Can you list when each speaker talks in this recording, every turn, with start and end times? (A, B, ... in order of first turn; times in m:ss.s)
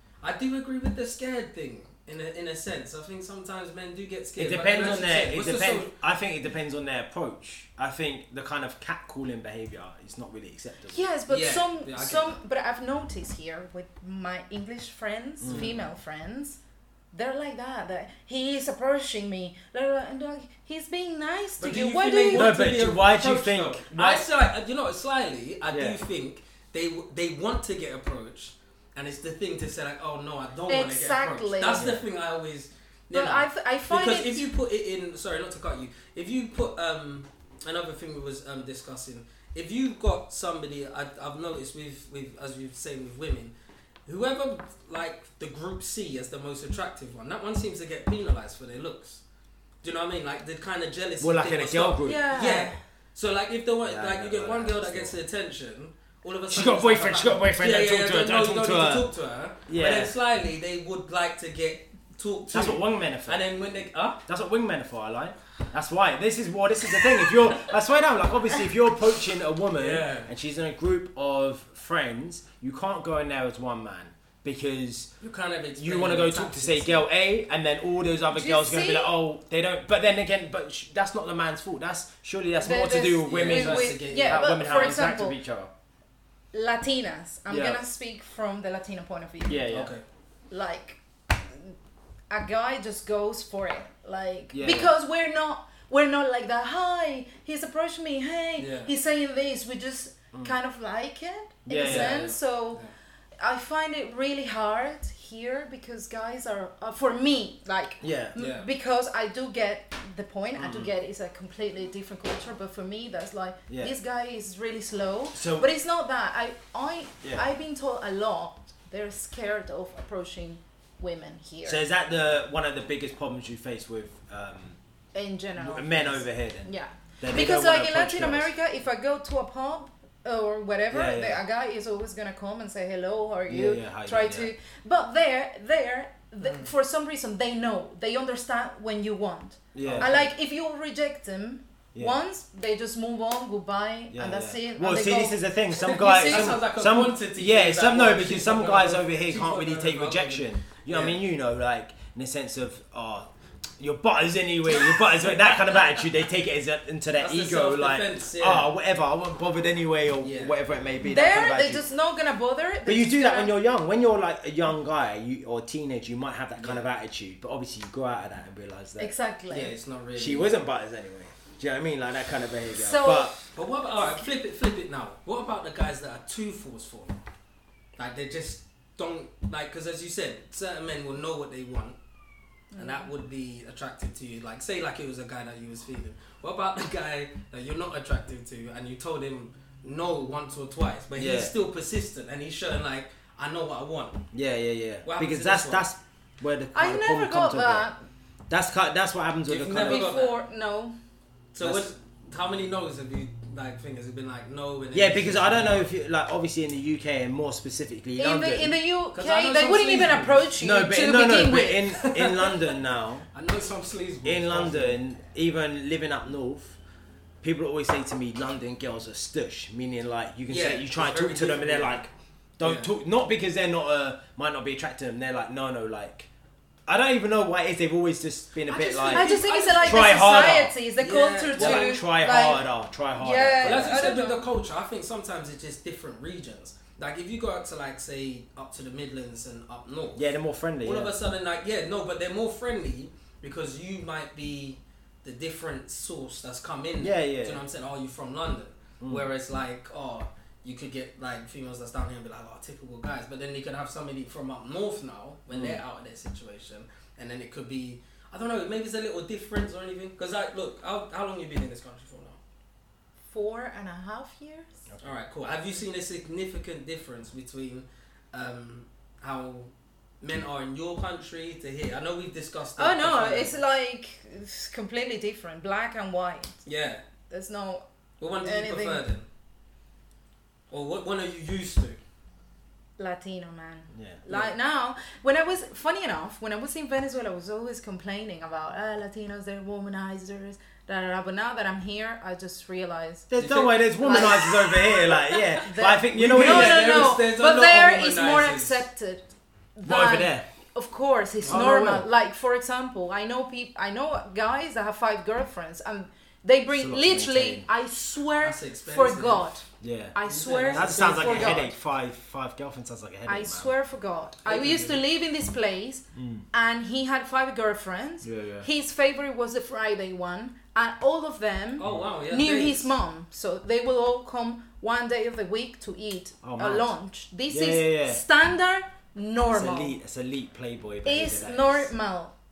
0:00.2-0:05.9 A
0:04.4-0:11.0 B
0:10.9-0:16.6 C
0:11.3-0:12.3 A
0:15.4-0:15.7 B
0:15.5-0:15.8 A
0:17.1-0:22.6 C
0:21.6-0:43.5 A
0:22.3-0:24.3 B
0:25.7-0:26.0 B
0:30.7-0:31.9 C
0:31.7-0:32.0 B
0:33.1-0:34.5 C
0:44.0-0:49.2 A
0:49.8-1:04.2 A
0:51.2-0:52.2 B
0:52.0-0:52.8 C
0:53.8-0:55.1 B
0:56.5-0:59.1 B
0:59.7-1:00.1 B
1:02.5-1:03.4 B
1:04.2-1:15.1 B
1:09.7-1:10.3 A
1:15.2-1:17.0 A
1:15.8-1:25.7 B
1:18.3-1:19.2 C
1:22.6-1:25.4 C
1:23.2-1:24.5 A
1:26.5-1:29.7 C
1:27.5-1:27.8 B
1:29.5-1:29.9 B
1:29.7-1:30.0 A
1:30.5-1:31.7 C
1:32.3-1:42.8 C
1:34.5-1:34.9 B
1:38.6-1:38.9 A
1:41.6-1:42.3 B
1:41.8-1:42.9 A
1:43.4-2:01.8 C
1:48.0-1:48.4 B
1:48.4-1:48.7 A
1:50.6-1:50.9 B
1:53.7-1:53.9 B
1:55.3-1:55.7 B
1:57.2-1:57.5 B
2:01.6-2:04.8 B
2:05.1-2:26.6 C
2:05.6-2:08.5 B
2:10.9-2:11.4 B
2:13.5-2:14.5 B
2:16.4-2:16.7 A
2:19.7-2:20.1 B
2:19.8-2:20.3 A
2:24.1-2:33.3 B
2:25.8-2:31.2 A
2:33.8-2:41.8 B
2:37.2-2:38.7 A
2:40.2-2:40.6 A
2:41.0-2:43.5 C
2:42.8-2:49.1 B
2:46.6-2:46.8 A
2:49.0-2:49.7 C
2:49.5-2:50.5 A
2:50.2-2:53.4 B
2:52.7-2:53.5 C
2:53.5-2:57.2 A
2:58.0-3:02.0 A
3:02.7-3:03.1 C
3:02.7-3:14.2 A
3:11.2-3:11.5 B
3:14.3-3:17.9 B
3:15.0-3:15.8 A
3:16.7-3:18.0 C
3:18.5-3:20.1 B
3:19.4-3:20.4 A
3:19.7-3:20.9 C
3:21.5-3:25.9 A
3:21.6-3:21.9 B
3:24.9-3:28.8 B
3:28.2-3:31.9 C
3:29.1-3:30.5 A
3:30.6-3:33.3 B
3:31.9-3:32.8 A
3:33.3-3:35.0 A
3:34.2-3:36.8 B
3:37.4-3:46.3 B
3:40.5-3:42.0 A
3:42.6-3:42.9 A
3:46.9-3:50.7 B
3:48.7-3:54.5 C
3:48.9-3:52.0 A
3:51.6-3:54.1 B
3:53.6-4:00.2 A
4:00.1-4:01.1 B
4:00.8-4:22.4 A
4:07.0-4:07.6 B
4:09.0-4:09.3 B
4:15.5-4:15.8 B
4:23.3-4:24.7 C
4:24.9-4:25.1 B
4:25.0-4:33.5 A
4:32.8-4:36.6 C
4:36.6-4:37.0 A
4:37.3-4:37.8 C
4:38.2-4:39.2 A
4:38.4-4:39.0 C
4:40.7-4:42.0 A
4:43.0-4:53.3 C
4:43.9-4:44.2 B
4:53.3-4:57.0 B
4:53.4-4:55.4 A
4:54.0-4:54.9 C
4:55.6-4:59.2 C
4:56.0-4:58.8 A
4:59.8-5:11.7 C
4:59.8-5:00.4 B
5:01.4-5:01.7 A
5:01.5-5:02.1 B
5:06.7-5:07.7 B
5:08.4-5:09.5 A
5:09.8-5:10.2 B
5:10.2-5:11.6 A
5:10.7-5:13.7 B
5:13.2-5:30.0 C
5:14.4-5:15.0 A
5:16.1-5:16.4 B
5:18.2-5:18.7 B
5:21.8-5:22.9 A
5:26.4-5:26.9 B
5:27.5-5:28.2 B
5:29.5-5:31.9 B
5:31.0-5:32.3 C